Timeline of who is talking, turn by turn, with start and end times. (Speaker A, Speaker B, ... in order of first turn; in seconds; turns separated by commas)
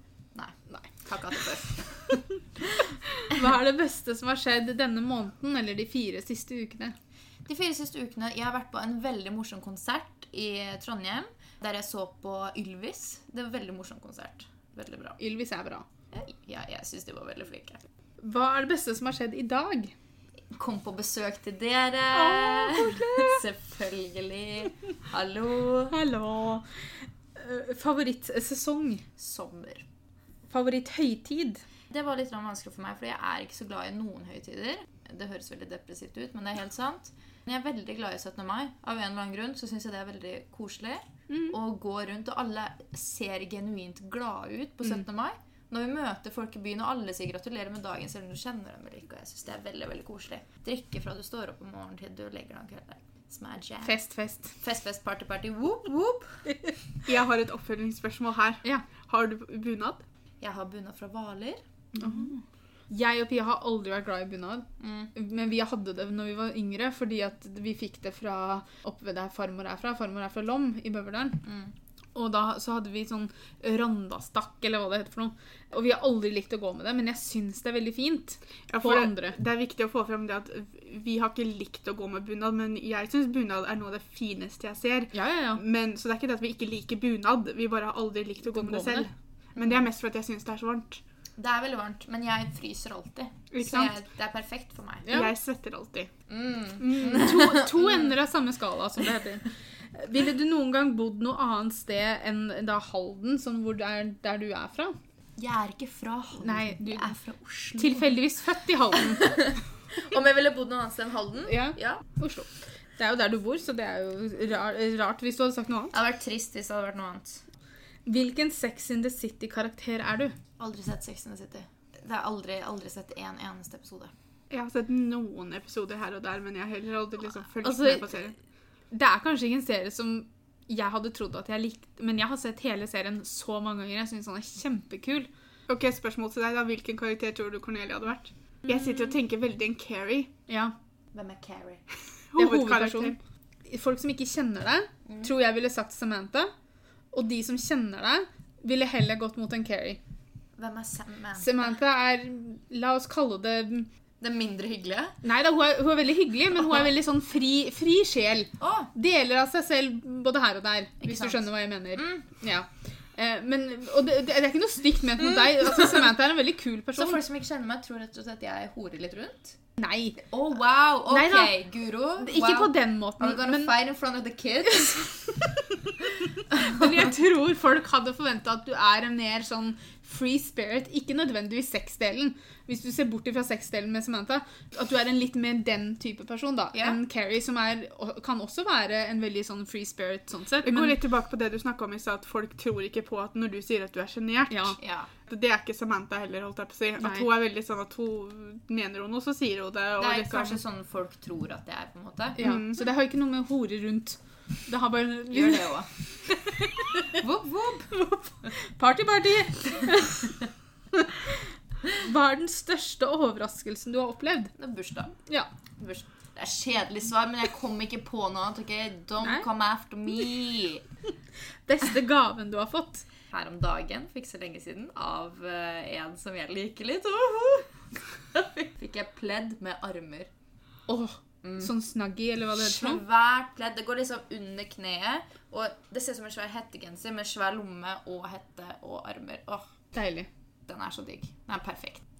Speaker A: 0.3-2.2, Speaker B: 3.1-7.0, Speaker A: 7.5-15.2, Speaker B: 15.2-15.8, Speaker A: 16.1-17.8, Speaker B: 18.2-19.9, Speaker A: 20.5-26.0, Speaker B: 22.1-23.4, Speaker B: 25.9-29.0, Speaker A: 29.2-29.8, Speaker B: 30.5-31.6, Speaker A: 31.9-54.0, Speaker B: 41.3-41.5, Speaker B: 53.8-54.5, Speaker A: 54.6-56.4, Speaker C: 57.0-60.0, Speaker A: 60.4-61.6, Speaker C: 62.0-62.2, Speaker B: 62.0-71.4, Speaker A: 64.8-65.1, Speaker A: 71.4-71.7, Speaker B: 72.1-79.3, Speaker C: 78.7-91.0, Speaker B: 85.1-85.6, Speaker B: 88.5-89.1, Speaker A: 91.4-95.1, Speaker C: 93.5-93.9, Speaker B: 95.0-95.3, Speaker C: 95.1-96.1, Speaker A: 96.3-98.1, Speaker C: 96.8-97.3, Speaker B: 97.0-105.0, Speaker A: 105.4-108.1, Speaker B: 106.4-107.1, Speaker B: 107.8-109.4, Speaker A: 109.2-112.0, Speaker B: 111.5-116.0, Speaker A: 115.9-117.4, Speaker B: 118.0-120.3, Speaker A: 120.6-124.1, Speaker C: 124.5-128.3, Speaker B: 127.6-128.2, Speaker B: 128.9-135.3, Speaker C: 135.7-140.3, Speaker B: 140.5-140.7, Speaker A: 141.1-141.8, Speaker C: 142.3-143.2, Speaker B: 142.4-143.2, Speaker B: 143.7-146.5, Speaker B: 147.1-150.0, Speaker A: 150.6-151.7, Speaker B: 151.4-153.9, Speaker A: 154.2-155.2, Speaker B: 155.2-167.2, Speaker A: 158.6-158.9, Speaker A: 161.0-161.4, Speaker A: 161.9-162.2, Speaker A: 166.9-169.6, Speaker B: 169.8-170.2, Speaker A: 170.2-175.5, Speaker B: 171.1-171.6, Speaker B: 172.2-173.8, Speaker A: 176.5-177.0, Speaker B: 176.5-191.0, Speaker A: 186.7-187.0, Speaker C: 190.6-200.6, Speaker B: 194.5-194.8, Speaker A: 194.8-195.1, Speaker B: 197.0-197.3, Speaker A: 200.0-202.4, Speaker B: 202.3-205.8, Speaker C: 202.4-202.8, Speaker A: 205.3-205.9, Speaker A: 207.1-207.9, Speaker B: 207.9-210.4, Speaker B: 211.9-214.5, Speaker A: 214.6-215.1, Speaker A: 215.8-220.8, Speaker B: 221.7-223.1, Speaker A: 223.3-227.7, Speaker A: 228.3-230.3, Speaker B: 230.9-233.0, Speaker A: 231.4-231.7, Speaker A: 232.5-239.7, Speaker B: 239.9-240.3, Speaker A: 240.7-242.0